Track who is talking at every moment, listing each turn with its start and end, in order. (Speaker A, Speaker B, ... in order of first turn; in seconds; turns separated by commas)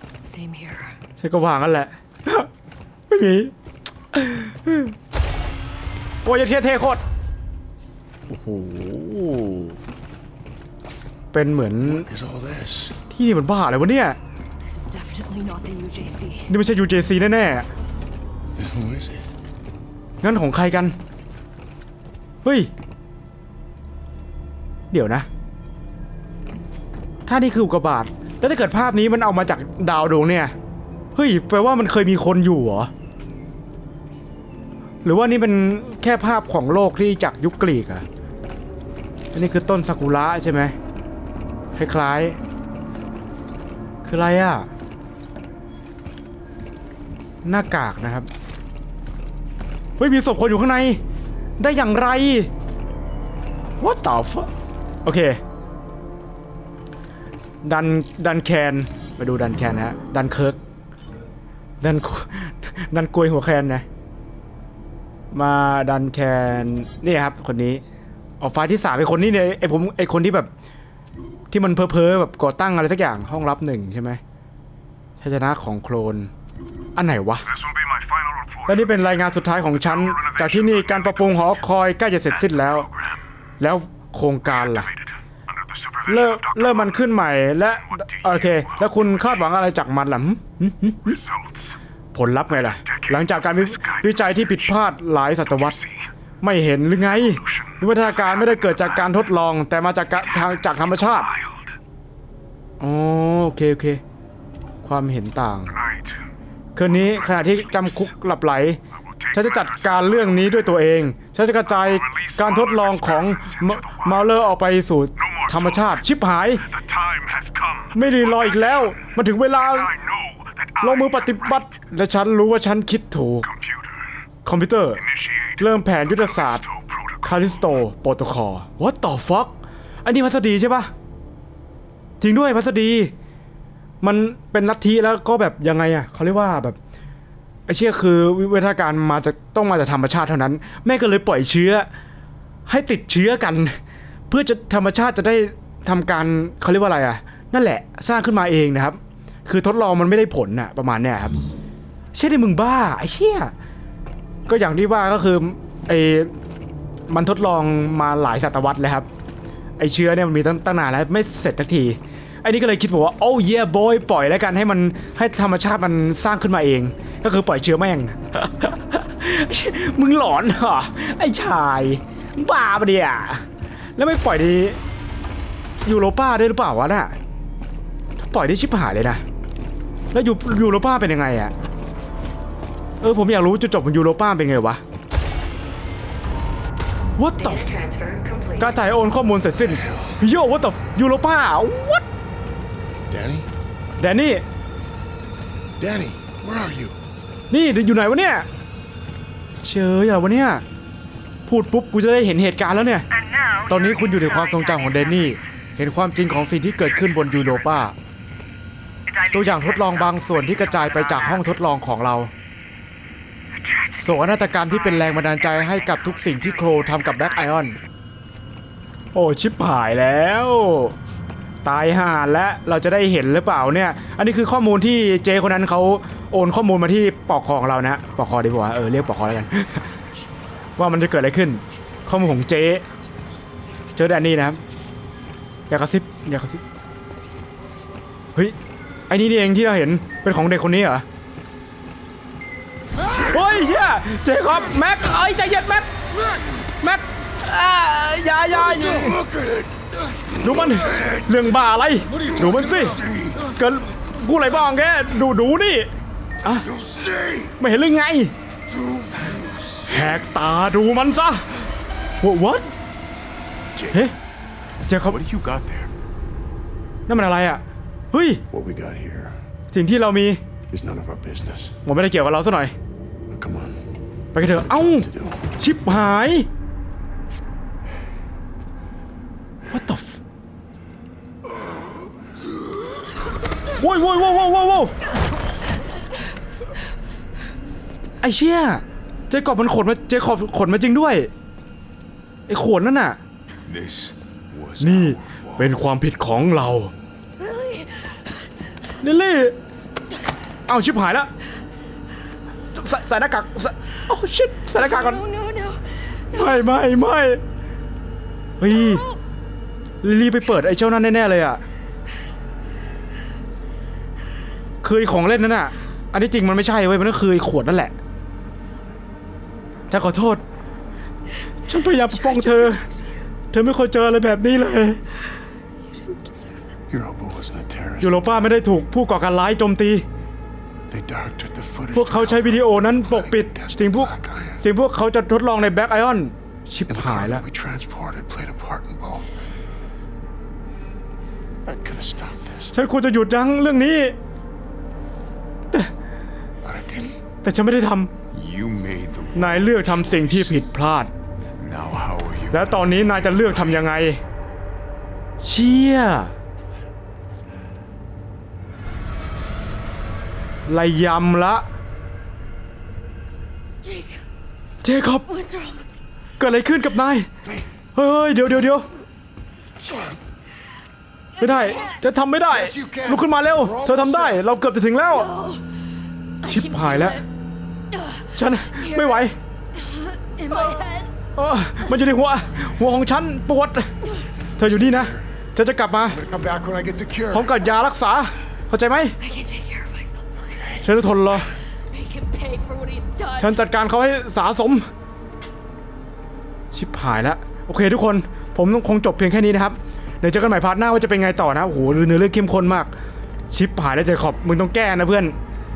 Speaker A: 0.2-1.0, Speaker B: 1.2-2.5, Speaker B: 3.1-3.5, Speaker B: 4.1-5.0, Speaker B: 6.2-7.0, Speaker B: 8.3-9.8, Speaker B: 11.3-12.1, Speaker C: 11.8-13.0, Speaker B: 13.1-14.2, Speaker A: 14.6-16.5, Speaker B: 16.5-17.7, Speaker C: 18.5-19.3, Speaker B: 20.2-20.9, Speaker B: 22.4-22.7, Speaker B: 24.9-25.3, Speaker B: 27.3-30.5, Speaker B: 31.1-32.9, Speaker B: 35.0-38.0, Speaker B: 39.3-40.8, Speaker B: 41.8-42.4, Speaker B: 44.0-44.7, Speaker B: 47.5-48.3, Speaker B: 50.0-51.0, Speaker B: 51.6-52.5, Speaker B: 53.8-54.5, Speaker B: 55.0-55.4, Speaker B: 57.6-60.6, Speaker B: 61.8-63.9, Speaker B: 65.3-67.8, Speaker B: 68.4-70.5, Speaker B: 71.5-74.2, Speaker B: 75.2-76.3, Speaker B: 77.0-77.5, Speaker B: 78.7-82.9, Speaker B: 83.6-84.9, Speaker B: 86.1-91.2, Speaker B: 92.1-95.8, Speaker B: 96.4-101.3, Speaker B: 102.8-104.0, Speaker B: 104.8-105.8, Speaker B: 106.8-108.8, Speaker B: 109.3-116.7, Speaker C: 116.8-117.9, Speaker B: 117.9-120.0, Speaker B: 120.8-123.5, Speaker B: 124.5-125.0, Speaker B: 125.6-126.7, Speaker B: 127.2-130.9, Speaker B: 132.2-133.1, Speaker B: 134.0-136.8, Speaker B: 137.7-141.9, Speaker B: 142.7-143.8, Speaker B: 144.3-151.3, Speaker B: 152.1-153.5, Speaker B: 154.5-156.3, Speaker B: 157.1-159.1, Speaker B: 159.8-173.4, Speaker B: 174.0-174.8, Speaker B: 175.8-177.2, Speaker B: 178.2-179.2, Speaker B: 180.1-181.5, Speaker B: 183.0-184.8, Speaker B: 187.2-187.8, Speaker D: 187.4-188.9, Speaker B: 188.6-192.0, Speaker C: 189.6-190.2, Speaker C: 193.1-193.5, Speaker B: 194.0-194.4, Speaker C: 195.8-197.0, Speaker B: 197.5-198.5, Speaker B: 199.6-200.6, Speaker B: 201.5-203.1, Speaker D: 203.1-205.4, Speaker B: 203.7-207.9, Speaker D: 209.1-211.6, Speaker B: 209.3-212.3, Speaker D: 213.6-217.5, Speaker B: 214.0-217.8, Speaker B: 219.1-221.0, Speaker B: 221.6-229.9, Speaker B: 230.8-232.8, Speaker B: 234.0-234.6, Speaker B: 235.7-236.6, Speaker B: 239.1-241.1, Speaker B: 243.2-245.9, Speaker B: 246.8-249.2, Speaker C: 248.7-251.2, Speaker B: 250.4-255.9, Speaker C: 252.1-253.4, Speaker C: 256.7-257.5, Speaker B: 257.6-258.3, Speaker C: 258.7-260.1, Speaker B: 259.9-261.7, Speaker B: 262.2-262.7, Speaker C: 263.7-264.1, Speaker B: 264.9-265.2, Speaker C: 265.0-265.9, Speaker B: 267.1-268.4, Speaker C: 268.5-269.4, Speaker B: 269.7-270.4, Speaker C: 270.7-271.8, Speaker B: 271.9-272.7, Speaker C: 273.3-273.8, Speaker B: 274.3-276.5, Speaker C: 274.7-275.5, Speaker B: 279.7-280.2, Speaker B: 283.8-284.9, Speaker B: 288.2-291.3, Speaker B: 292.5-293.2, Speaker C: 293.7-295.8, Speaker B: 294.8-296.9, Speaker A: 297.4-298.5, Speaker B: 299.0-299.6, Speaker B: 300.7-301.3, Speaker B: 302.8-305.2, Speaker A: 304.8-306.7, Speaker B: 306.3-307.4, Speaker B: 308.6-309.0, Speaker A: 308.7-309.2, Speaker B: 310.0-311.6, Speaker B: 314.8-317.9, Speaker B: 319.9-320.4, Speaker B: 321.7-322.8, Speaker A: 321.9-323.3, Speaker B: 323.5-325.0, Speaker C: 326.9-328.6, Speaker B: 328.0-330.1, Speaker C: 330.9-334.6, Speaker B: 331.9-337.4, Speaker C: 336.9-339.5, Speaker C: 341.6-342.8, Speaker B: 342.7-344.2, Speaker C: 346.6-347.2, Speaker B: 347.4-348.1, Speaker C: 348.3-350.6, Speaker B: 349.3-351.1, Speaker C: 351.6-353.9, Speaker B: 352.5-354.2, Speaker B: 355.4-356.3, Speaker B: 360.7-361.6, Speaker A: 363.8-364.2, Speaker B: 364.8-365.3, Speaker A: 365.3-365.9, Speaker B: 366.4-367.3, Speaker B: 367.9-368.9, Speaker C: 369.8-370.2, Speaker A: 371.4-372.0, Speaker B: 371.4-375.3, Speaker C: 372.5-374.4, Speaker A: 375.1-375.6, Speaker A: 376.4-377.3, Speaker B: 376.4-377.2, Speaker A: 377.9-381.1, Speaker B: 378.4-379.4, Speaker B: 380.5-380.8, Speaker B: 381.4-383.9, Speaker B: 384.6-386.2, Speaker C: 384.6-385.3, Speaker C: 386.1-387.6, Speaker B: 387.3-389.2, Speaker A: 389.2-390.3, Speaker C: 390.4-391.5, Speaker B: 390.8-391.5, Speaker A: 391.9-393.6, Speaker B: 393.4-394.9, Speaker B: 396.7-402.9, Speaker B: 403.5-405.4